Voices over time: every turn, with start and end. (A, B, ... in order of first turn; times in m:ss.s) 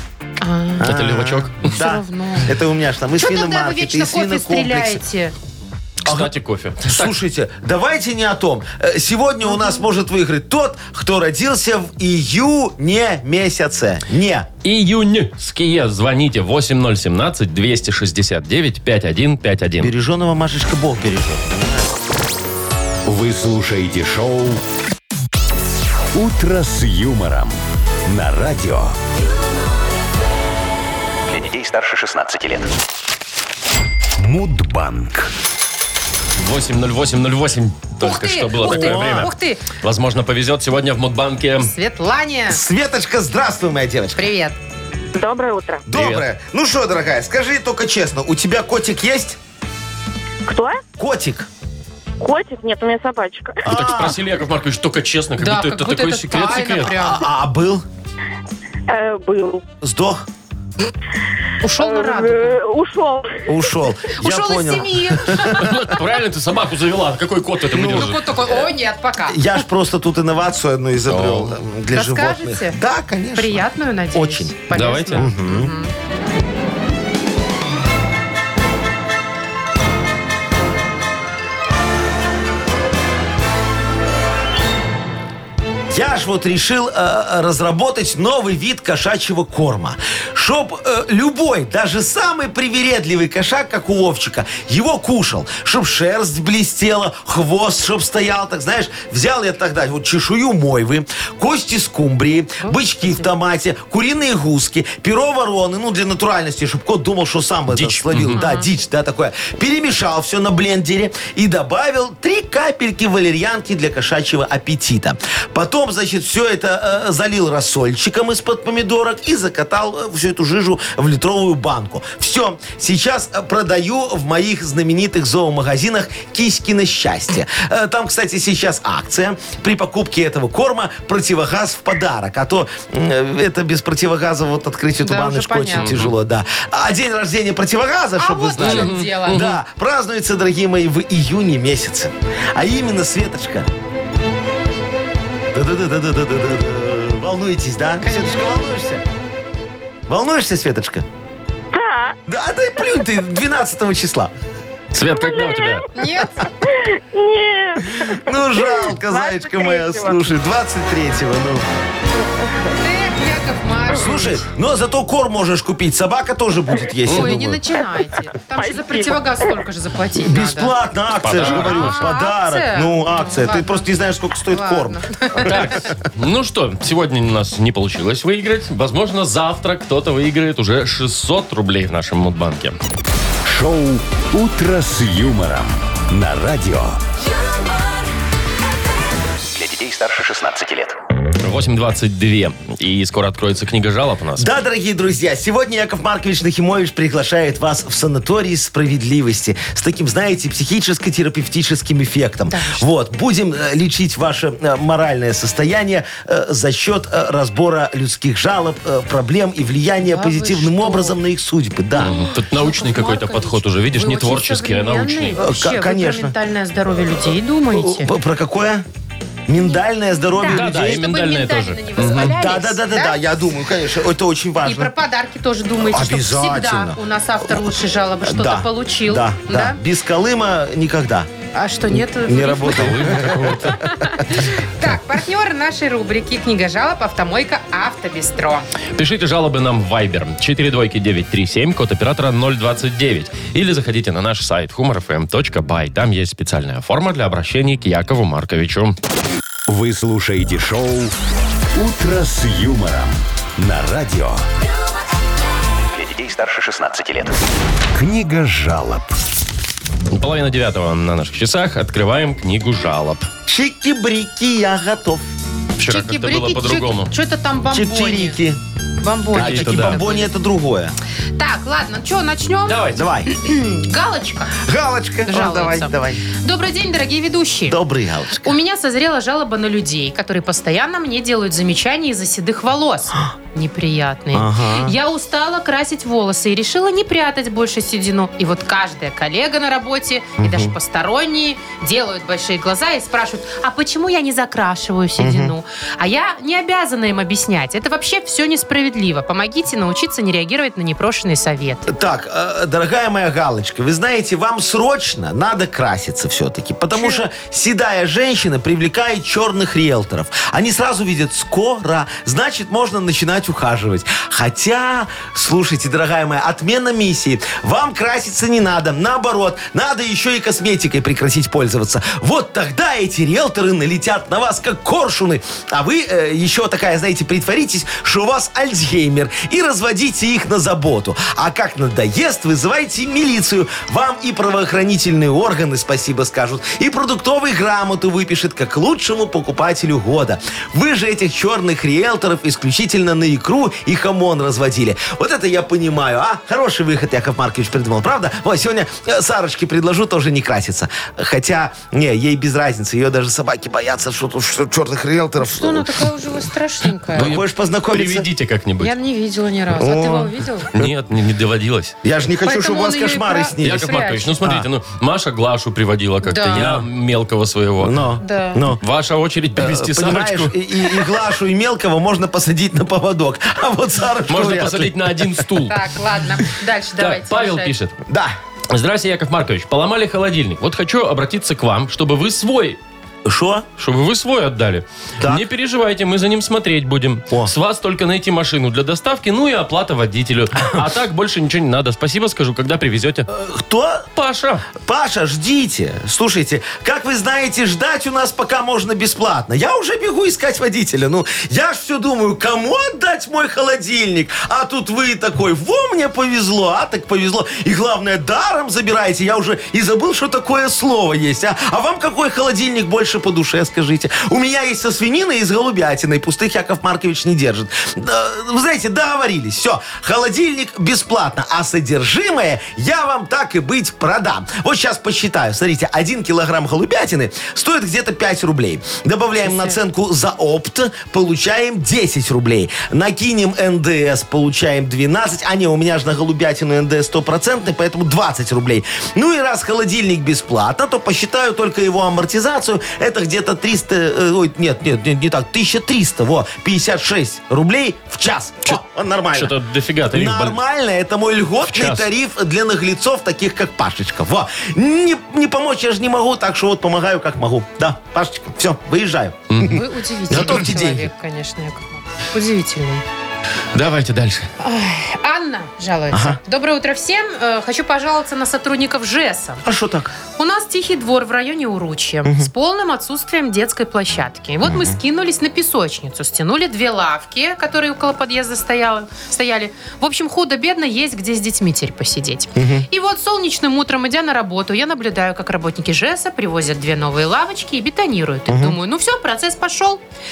0:00.4-0:00.9 A
0:00.8-0:05.0 B
0:00.8-0:01.7 C
0:01.6-0:02.5 A
0:03.2-0:05.3 A
0:06.0-0:06.3 B
0:06.1-0:07.2 C
0:06.8-0:14.5 B
0:09.5-0:09.8 A
0:14.6-0:19.9 C
0:19.8-0:21.9 B
0:23.1-0:24.6 D
0:26.1-0:29.0 D
0:31.3-0:32.7 E
0:34.2-0:35.3 D
0:36.4-0:41.7 C
0:38.0-0:39.6 A
0:38.6-0:39.3 B
0:41.6-0:42.6 A
0:42.5-0:44.3 B
0:44.2-0:44.6 A
0:45.1-0:45.8 F
0:45.9-0:49.4 B
0:45.9-0:46.2 C
0:50.5-0:50.8 F
0:51.0-0:51.5 B
0:52.2-0:53.7 F
0:53.6-0:54.2 B
0:53.7-0:57.0 C
0:55.4-0:57.2 A
0:56.9-0:57.8 B
0:58.9-0:59.6 F
0:59.8-1:00.3 B
1:01.6-1:02.6 A
1:01.8-1:03.6 F
1:03.4-1:05.8 B
1:04.1-1:05.7 A
1:05.6-1:08.2 C
1:07.7-1:08.7 B
1:07.9-1:09.6 A
1:09.3-1:14.6 B
1:11.1-1:11.6 C
1:11.9-1:12.8 A
1:13.3-1:15.9 A
1:14.7-1:15.3 C
1:15.1-1:15.7 B
1:25.9-2:23.7 B
1:42.6-1:43.3 A
1:47.7-1:48.4 C
1:48.3-1:48.7 A
2:15.0-2:15.9 A
2:15.7-2:16.1 C
2:18.2-2:19.4 A
2:18.6-2:19.6 C
2:25.5-2:29.0 B
2:28.0-2:28.4 A
2:30.1-2:31.0 B
2:31.7-2:32.2 F
2:32.3-2:34.3 B
2:34.9-2:35.9 C
2:35.2-2:35.8 F
2:35.9-2:36.4 A
2:36.6-2:40.2 F
2:38.0-2:41.6 B
2:42.8-2:44.5 A
2:43.9-2:47.6 B
2:47.1-2:47.4 C
2:47.1-2:50.7 A
2:48.6-2:49.6 F
2:50.2-2:55.8 B
2:51.2-2:52.0 C
2:51.4-2:53.9 A
2:54.4-2:55.5 A
2:55.4-3:02.8 C
3:03.4-3:07.0 D
3:09.5-3:11.0 E
3:11.4-3:14.5 C
3:14.4-3:32.2 B
3:22.5-3:22.9 A
3:30.0-3:31.2 A
3:32.0-3:38.1 A
3:32.0-3:35.4 C
3:35.4-3:36.4 B
3:37.7-3:38.9 B
3:39.5-3:41.0 B
3:40.3-3:43.2 A
3:40.5-3:42.4 C
3:42.2-3:44.9 B
3:44.6-3:49.8 A
3:45.8-3:51.3 B
3:51.5-3:58.7 A
3:51.9-3:54.2 B
3:52.6-3:53.8 C
3:59.0-4:09.0 C
4:09.7-4:11.1 D
4:11.7-4:14.4 D
4:15.9-4:17.4 E
4:17.9-4:19.2 D
4:20.1-4:23.3 C
4:23.5-4:25.3 B
4:25.8-4:27.1 C
4:25.8-4:28.4 A
4:27.7-4:28.6 B
4:29.0-4:30.3 A
4:29.3-4:31.0 B
4:29.4-4:30.0 C
4:31.4-4:34.6 A
4:32.7-4:33.0 C
4:33.0-4:33.3 B
4:34.6-4:36.2 B
4:35.3-4:37.8 A
4:37.7-4:38.6 B
4:38.4-5:01.9 A
4:44.3-4:44.9 B
4:50.4-4:50.7 B
4:55.2-4:55.5 B
5:01.9-5:56.4 B
5:06.9-5:07.2 A
5:55.4-5:57.3 A
5:57.1-5:58.3 B
5:57.2-5:58.9 C
5:58.8-6:00.7 A
5:59.7-6:00.9 B
6:00.8-6:02.0 C
6:02.0-6:04.7 B
6:02.4-6:04.4 A
6:03.6-6:08.0 C
6:06.2-6:06.7 A
6:06.6-6:06.8 B
6:07.8-6:08.8 B
6:08.2-6:08.6 A
6:08.8-6:10.5 C
6:09.6-6:15.4 B
6:14.3-6:15.8 C
6:15.7-6:17.7 A
6:17.0-6:18.0 C
6:18.1-6:18.4 B
6:18.7-6:22.8 C
6:23.2-6:23.7 B
6:23.8-6:33.3 C
6:33.3-6:34.1 B
6:34.2-6:34.7 C
6:34.8-7:29.6 B
7:09.4-7:09.8 A
7:29.3-7:30.6 C
7:30.1-7:39.7 B
7:31.7-7:32.1 C
7:39.5-7:39.8 C
7:39.7-7:43.0 A
7:40.3-7:41.1 B
7:43.7-7:44.5 C
7:44.6-7:49.6 A
7:46.1-7:46.4 B
7:49.6-7:50.1 B
7:50.4-8:10.0 A
7:52.2-7:52.5 B
7:54.6-7:55.0 B
8:02.6-8:02.9 B
8:08.5-8:08.8 B